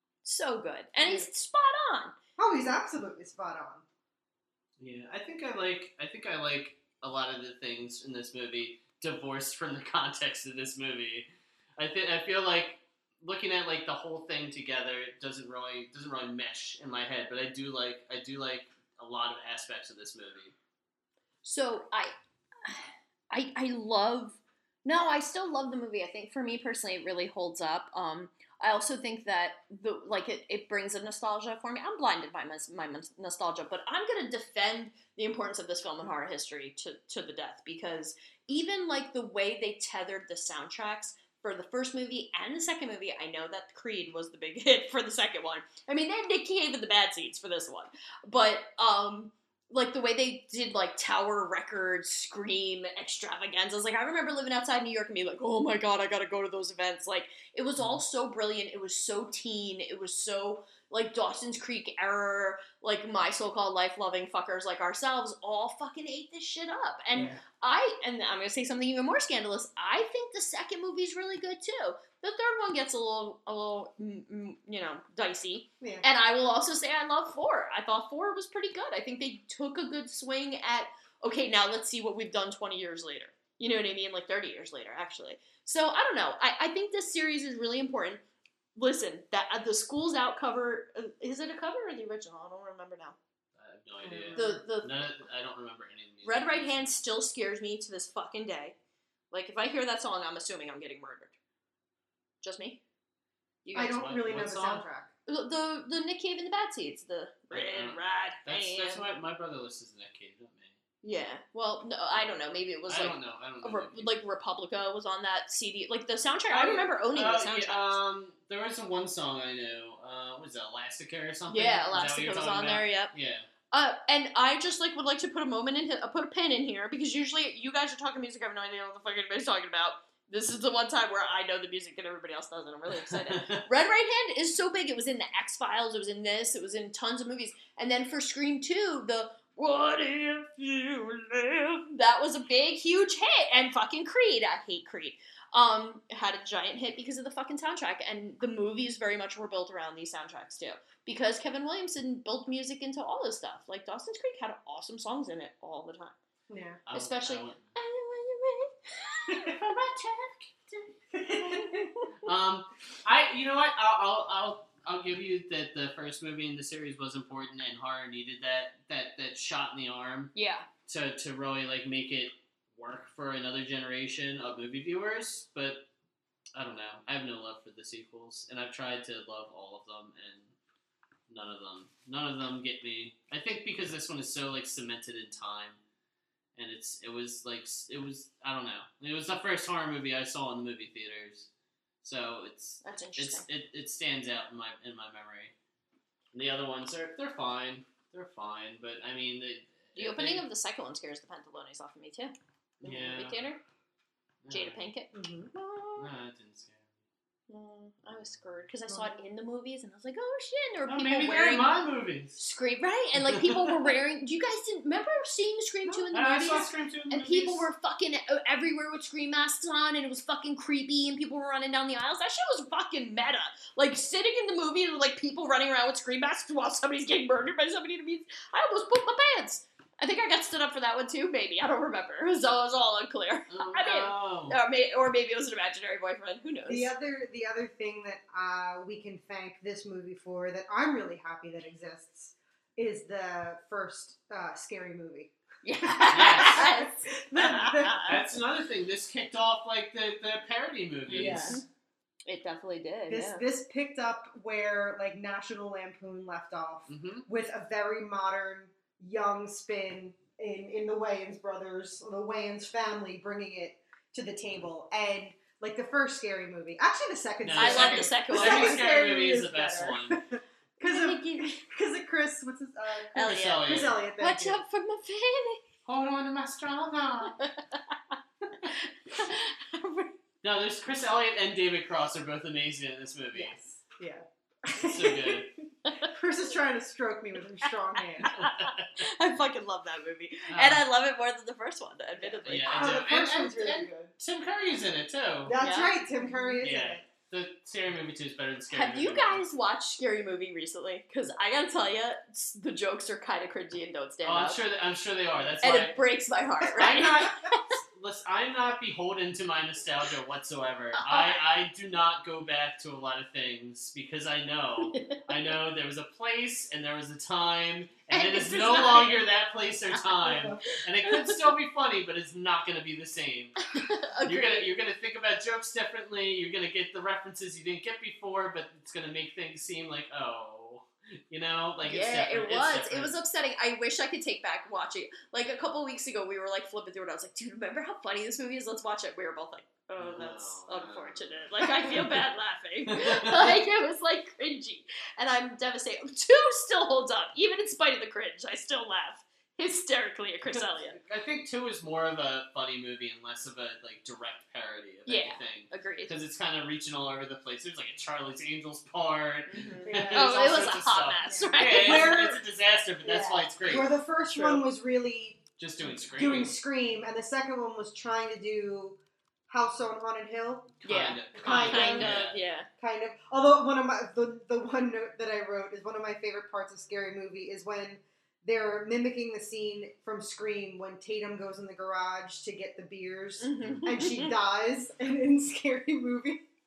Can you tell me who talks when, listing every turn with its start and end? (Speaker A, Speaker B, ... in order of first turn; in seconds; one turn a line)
Speaker A: 0.2-2.1
Speaker B: 1.0-1.2
Speaker B: 2.4-3.8
Speaker C: 4.8-20.5
Speaker A: 21.4-22.1
Speaker A: 22.6-88.2
Speaker B: 67.1-67.4
Speaker B: 75.8-76.0
Speaker A: 88.8-93.2
Speaker C: 93.5-97.0
Speaker B: 94.0-94.6
Speaker A: 94.3-94.9
Speaker A: 96.2-98.7
Speaker A: 99.3-101.3
Speaker A: 102.4-102.8
Speaker A: 103.6-104.0
Speaker B: 103.7-105.1
Speaker C: 103.9-104.8
Speaker A: 105.3-109.1
Speaker C: 107.5-110.8
Speaker A: 111.0-118.0
Speaker C: 112.9-114.2
Speaker C: 116.5-123.5
Speaker A: 121.5-123.1
Speaker A: 123.7-156.2
Speaker C: 133.1-133.6
Speaker B: 156.5-156.8
Speaker C: 156.9-157.7
Speaker A: 156.9-159.7
Speaker C: 159.5-160.6
Speaker B: 161.1-161.9
Speaker C: 162.2-170.3
Speaker A: 170.3-170.7
Speaker C: 170.8-175.9
Speaker C: 176.5-180.5
Speaker C: 181.3-185.8
Speaker C: 186.5-191.5
Speaker C: 192.0-195.5
Speaker A: 192.8-193.4
Speaker C: 196.3-200.4
Speaker A: 199.9-203.6
Speaker C: 202.8-203.4
Speaker C: 204.4-204.8
Speaker A: 204.5-206.1
Speaker B: 205.1-205.5
Speaker C: 206.0-206.9
Speaker A: 207.5-211.7
Speaker C: 210.9-212.4
Speaker A: 212.3-236.9
Speaker B: 215.8-216.7
Speaker C: 216.1-217.7
Speaker C: 233.5-234.6
Speaker B: 236.7-248.0
Speaker A: 245.6-248.2
Speaker C: 246.1-246.7
Speaker C: 248.1-251.6
Speaker B: 251.1-251.6
Speaker A: 251.1-251.6
Speaker A: 252.2-253.4
Speaker B: 253.1-274.6
Speaker C: 256.9-257.2
Speaker C: 267.4-270.2
Speaker A: 267.6-268.9
Speaker A: 270.8-271.6
Speaker A: 273.1-275.6
Speaker C: 273.2-273.9
Speaker C: 275.9-277.4
Speaker A: 278.7-280.1
Speaker C: 280.4-283.6
Speaker B: 283.3-285.5
Speaker C: 284.8-285.5
Speaker B: 286.1-288.3
Speaker A: 288.2-292.9
Speaker C: 288.3-288.9
Speaker C: 290.5-290.8
Speaker B: 292.2-294.1
Speaker C: 292.5-295.5
Speaker B: 295.4-297.0
Speaker A: 295.6-296.5
Speaker C: 296.6-299.4
Speaker A: 298.7-304.6
Speaker C: 304.2-306.0
Speaker A: 305.6-307.6
Speaker C: 306.7-323.6
Speaker A: 311.0-311.4
Speaker A: 318.1-319.1
Speaker B: 320.2-320.6
Speaker A: 323.7-324.7
Speaker C: 324.2-333.1
Speaker A: 331.8-351.0
Speaker C: 340.0-342.1
Speaker C: 342.9-343.6
Speaker C: 350.4-363.9
Speaker A: 355.1-356.1
Speaker A: 359.5-362.1
Speaker B: 359.8-362.4
Speaker B: 363.0-365.4
Speaker A: 364.3-364.6
Speaker C: 365.6-366.6
Speaker B: 366.1-369.0
Speaker B: 369.5-370.7
Speaker C: 370.8-372.4
Speaker A: 370.8-372.7
Speaker B: 371.3-372.2
Speaker B: 372.8-386.4
Speaker A: 383.4-384.3